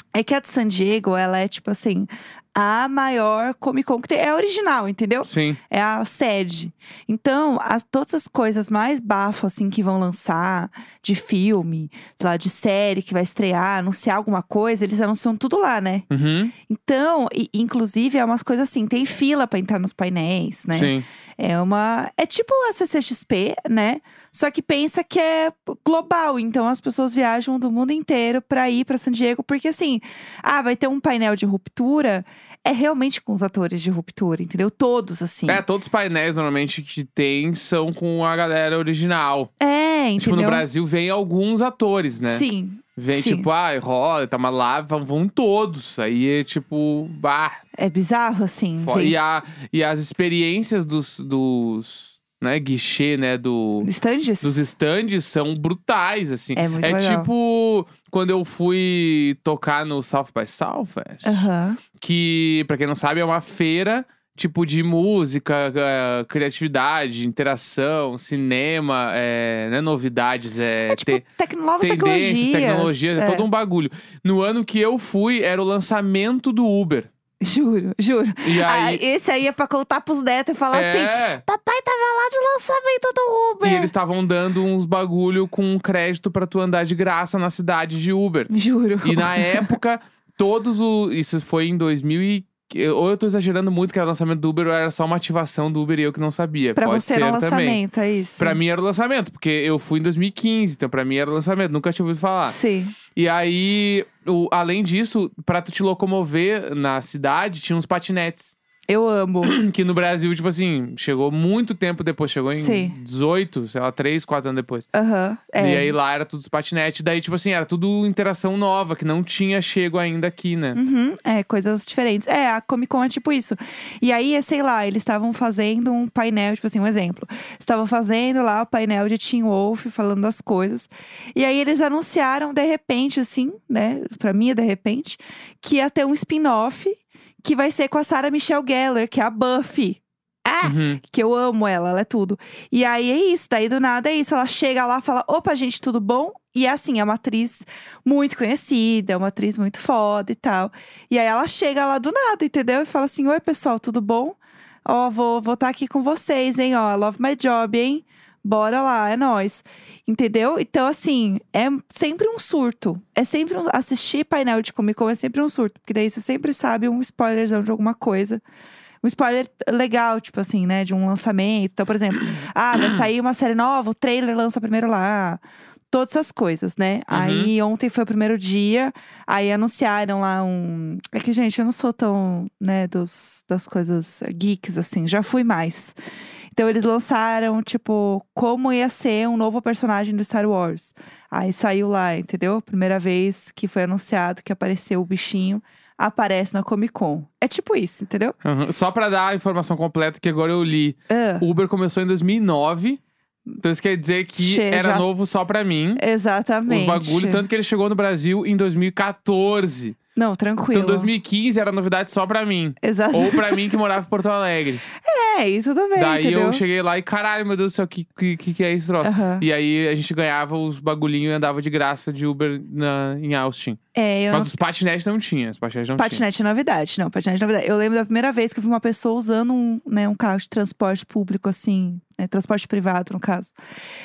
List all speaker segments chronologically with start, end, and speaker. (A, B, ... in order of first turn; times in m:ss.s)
0:00.1-0:16.1 A
0:05.2-0:05.6 B
0:16.1-0:16.5 B
0:16.7-0:35.6 A
0:20.7-0:21.1 B
0:35.5-0:39.5 B
0:39.6-0:40.6 A
0:40.2-0:42.5 B
0:42.2-0:43.5 A
0:43.0-0:47.6 B
0:47.8-0:49.2 A
0:48.8-0:53.9 B
0:53.8-0:54.7 A
0:54.4-1:11.2 B
0:56.6-0:57.3 A
1:01.2-1:01.8 A
1:10.9-1:13.5 A
1:11.8-1:17.1 B
1:17.4-1:23.9 A
1:18.4-1:19.0 B
1:20.7-1:21.4 B
1:23.6-1:28.5 B
1:28.5-1:29.8 A
1:29.0-1:37.8 B
1:36.8-1:38.6 A
1:38.4-1:42.6 B
1:42.5-1:43.0 A
1:43.1-1:48.6 B
1:48.9-1:49.6 A
1:49.4-1:54.9 B
1:52.6-1:53.0 A
1:54.9-1:55.9 A
1:55.6-2:00.8 B
2:00.8-2:48.4 A
2:20.6-2:21.0 B
2:49.0-3:06.0 A
2:57.1-2:57.5 B
3:06.5-3:18.4 A
3:18.4-3:23.0 B
3:21.1-3:21.5 A
3:23.6-3:26.0 B
3:24.4-3:25.0 A
3:26.0-3:27.4 A
3:26.7-3:30.0 B
3:30.2-3:31.1 A
3:30.7-3:34.8 B
3:32.8-3:33.8 A
3:35.0-3:36.6 A
3:36.0-3:43.8 B
3:39.0-3:39.5 A
3:44.0-3:44.6 A
3:44.3-3:46.2 B
3:46.0-3:53.6 A